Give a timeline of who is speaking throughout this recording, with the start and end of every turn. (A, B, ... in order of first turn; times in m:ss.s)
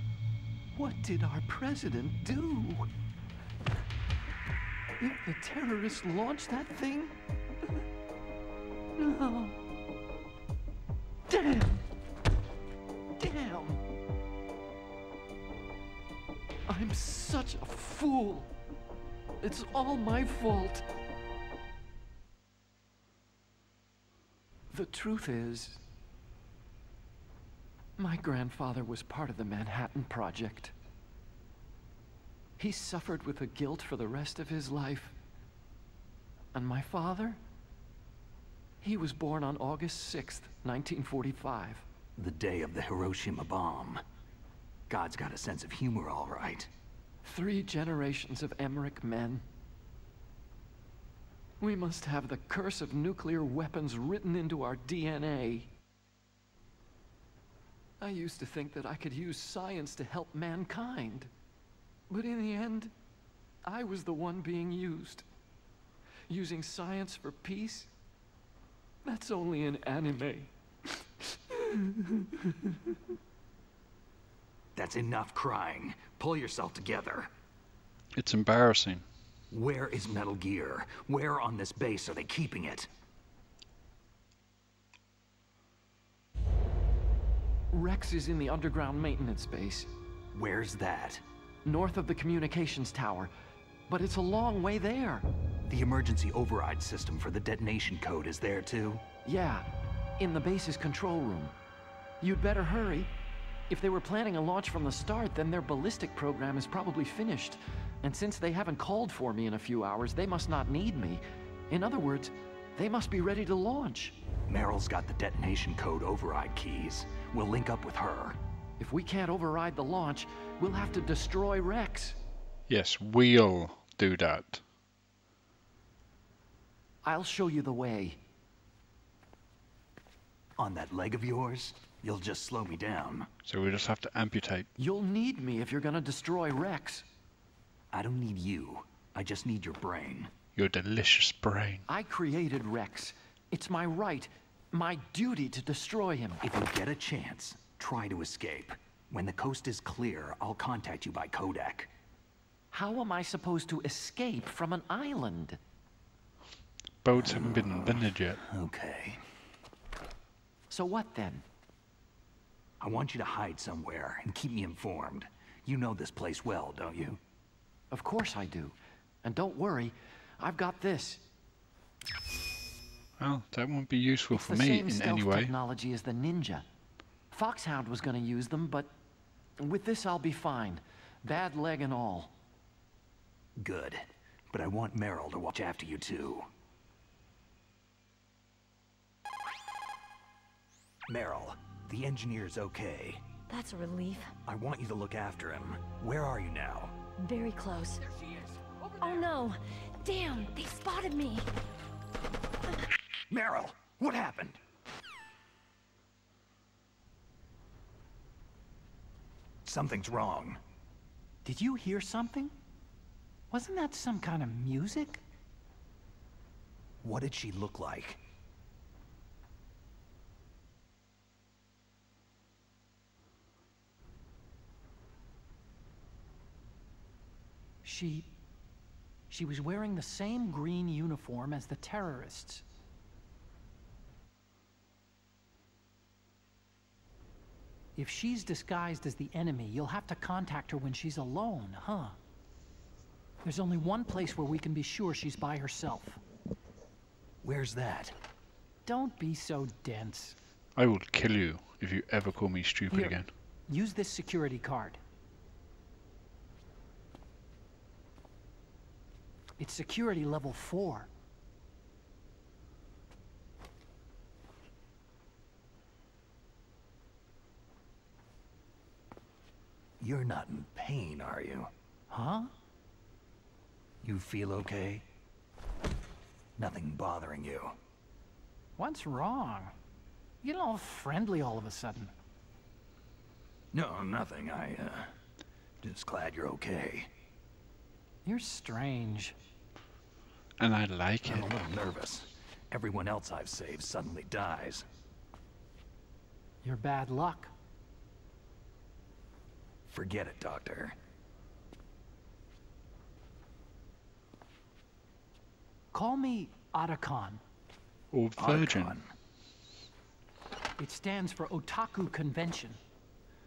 0:00.7-0:02.9 A
0:05.0-0:07.1 A
0:09.0-0:09.5 A
0:11.3-0:11.8 A
0:13.2-0:13.8 A
0:16.7-0:18.5 A
0:19.4-0:20.8 A
0:24.7-0:25.8 A
0:28.0-0:30.7 A
0:32.6-0:35.1 A
0:36.5-0:37.4 A
0:38.8-0:41.8 A
0:42.2-0:44.0 B
0:44.9-0:46.7 B
0:47.2-0:49.4 A
0:51.6-0:55.7 A
0:58.0-1:01.3 A
1:02.1-1:02.9 A
1:03.6-1:05.2 A
1:06.3-1:07.9 A
1:09.0-1:10.5 A
1:11.6-1:12.5 A
1:14.7-1:17.3 B
1:18.2-1:19.0 C
1:19.5-1:22.9 B
1:27.7-1:29.9 A
1:30.3-1:31.2 B
1:31.6-1:33.3 A
1:33.9-1:35.2 A
1:35.7-1:39.0 B
1:39.2-1:39.6 A
1:40.2-1:41.5 A
1:42.2-1:43.1 A
1:43.7-1:54.2 A
1:54.5-1:58.4 B
1:58.8-2:02.2 A
2:02.7-2:04.6 C
2:07.0-2:08.2 A
2:10.6-2:13.3 B
2:13.4-2:14.7 C
2:14.8-2:17.0 A
2:17.9-2:20.3 B
2:20.6-2:21.8 C
2:21.9-2:26.4 A
2:26.4-2:31.9 B
2:32.7-2:35.6 A
2:37.0-2:38.4 C
2:37.2-2:39.2 B
2:40.7-2:41.4 A
2:42.8-2:47.2 B
2:47.9-2:51.2 A
2:53.2-2:55.5 C
2:54.3-2:56.6 A
2:57.3-2:58.9 A
2:59.6-3:02.3 A
3:03.6-3:06.5 B
3:11.1-3:13.2 B
3:13.5-3:14.3 D
3:14.4-3:17.0 B
3:17.2-3:18.0 D
3:18.0-3:19.3 E
3:19.0-3:21.5 D
3:23.3-3:24.6 B
3:29.6-3:30.6 B
3:31.4-3:32.5 E
3:33.5-3:35.2 E
3:37.0-3:38.2 B
3:47.8-3:48.3 E
3:49.3-3:52.6 E
3:58.0-4:02.2 E
4:03.4-4:06.2 E
4:07.4-4:08.2 B
4:08.8-4:10.4 E
4:10.8-4:13.3 C
4:12.9-4:15.0 E
4:19.6-4:21.1 E
4:30.0-4:31.7 B
4:32.1-4:32.5 E
4:34.0-4:35.0 B
4:36.6-4:37.8 B
4:38.8-4:39.7 E
4:40.4-4:42.1 E
4:43.7-4:45.1 B
4:45.8-4:47.1 B
4:48.2-4:49.3 E
4:50.6-4:51.5 C
4:51.2-4:54.8 B
4:56.6-4:57.5 E
4:59.9-5:01.0 B
5:05.9-5:07.4 E
5:08.1-5:09.0 C
5:08.4-5:09.1 B
5:10.8-5:12.8 E